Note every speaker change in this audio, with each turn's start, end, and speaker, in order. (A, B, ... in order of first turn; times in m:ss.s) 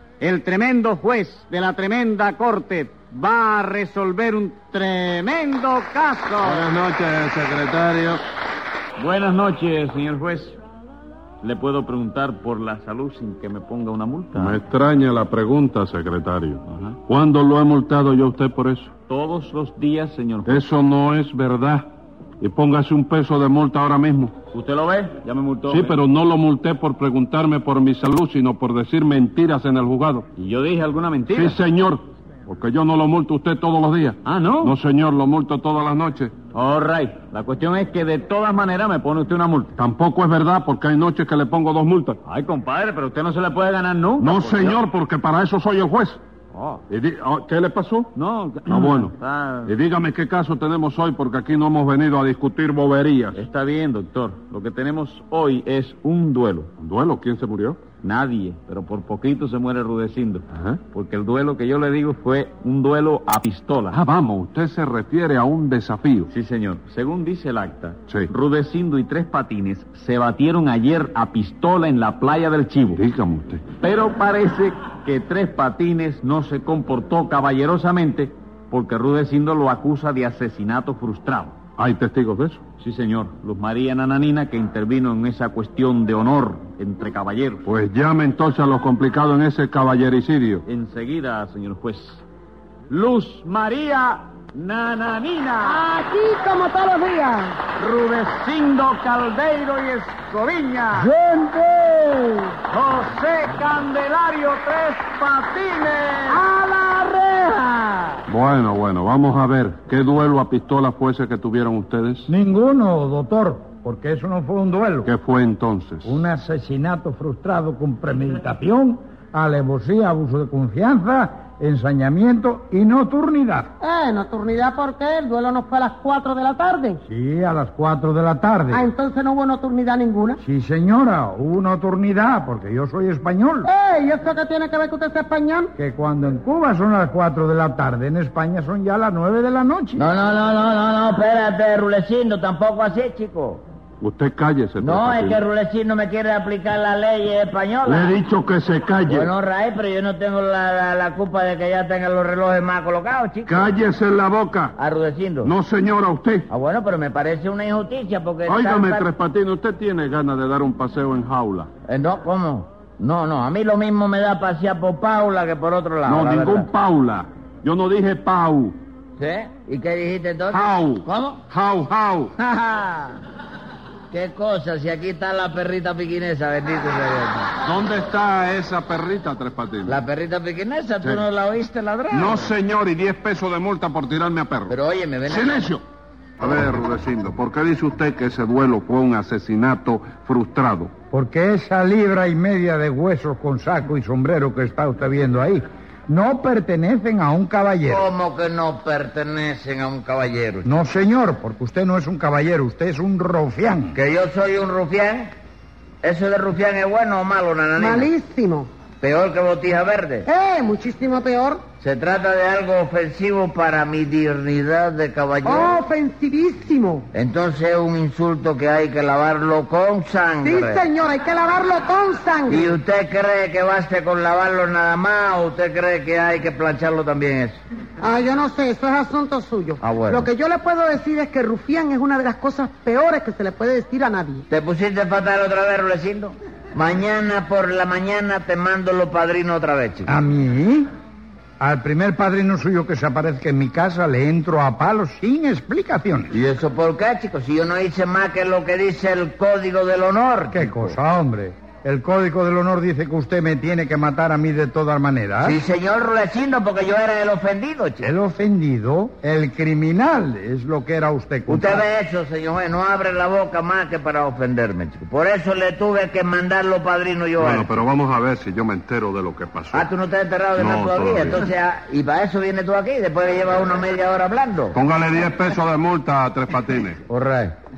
0:06.3-0:06.6 A
0:06.4-0:08.2 B
0:09.0-0:10.6 A
0:11.4-0:14.6 A
0:14.4-0:18.9 B
0:19.1-0:20.6 A
0:20.4-0:21.9 B
0:22.4-0:24.4 B
0:24.5-0:26.0 A
0:25.7-0:30.3 B
0:30.4-0:31.6 A
0:31.3-0:36.3 B
0:34.2-0:34.8 A
0:36.5-0:39.7 A
0:39.8-0:42.2 B
0:42.2-0:44.8 A
0:44.2-0:46.2 B
0:46.5-0:46.8 A
0:46.9-0:49.1 B
0:48.2-0:49.7 A
0:49.6-0:53.4 B
0:53.3-0:56.7 A
0:56.8-0:57.8 B
0:58.0-1:04.0 A
1:00.5-1:00.8 B
1:03.9-1:06.3 B
1:06.3-1:13.0 A
1:12.9-1:13.7 B
1:13.8-1:21.6 A
1:21.8-1:22.7 B
1:22.8-1:27.6 A
1:27.7-1:30.7 B
1:30.7-1:32.2 A
1:32.9-1:35.8 A
1:35.7-1:37.7 C
1:37.7-1:41.1 A
1:41.4-1:41.8 C
1:42.7-1:46.4 A
1:46.3-1:47.5 C
1:47.6-1:47.9 A
1:48.3-1:52.3 B
1:52.3-1:55.1 D
1:55.0-1:56.2 B
1:56.0-2:03.7 D
2:03.8-2:07.0 C
2:07.1-2:08.9 D
2:08.7-2:10.4 C
2:10.4-2:13.7 D
2:13.6-2:15.7 C
2:15.8-2:20.0 D
2:20.0-2:23.6 E
2:24.0-2:25.4 B
2:24.8-2:28.2 E
2:27.8-2:29.3 B
2:29.1-2:33.7 E
2:33.5-2:34.8 B
2:34.8-2:35.5 E
2:35.4-2:36.5 B
2:36.5-2:39.1 E
2:38.5-2:41.7 B
2:41.9-2:46.7 E
2:46.0-2:48.8 B
2:49.2-2:51.4 E
2:50.5-2:52.3 B
2:52.4-2:53.2 E
2:54.1-2:57.5 E
2:57.6-3:00.0 B
2:59.8-3:02.5 E
3:02.1-3:04.7 B
3:04.7-3:05.7 E
3:05.3-3:05.8 B
3:06.4-3:10.9 B
3:11.1-3:18.1 D
3:17.8-3:20.7 E
3:20.6-3:24.0 D
3:23.9-3:25.3 E
3:26.0-3:28.1 E
3:27.8-3:28.7 C
3:29.0-3:30.3 E
3:30.2-3:31.6 C
3:31.8-3:35.8 E
3:35.4-3:37.1 C
3:37.1-3:40.8 E
3:40.4-3:42.7 C
3:42.5-3:47.6 E
3:48.0-3:54.4 C
3:49.8-3:50.3 E
3:54.5-4:00.1 E
4:00.1-4:00.9 D
4:01.6-4:06.3 D
4:06.3-4:11.0 E
4:10.5-4:15.6 D
4:15.4-4:18.1 E
4:18.0-4:21.9 D
4:21.5-4:27.8 E
4:27.4-4:29.9 B
4:29.7-4:34.8 E
4:30.6-4:31.5 B
4:34.8-4:37.0 B
4:37.1-4:37.5 E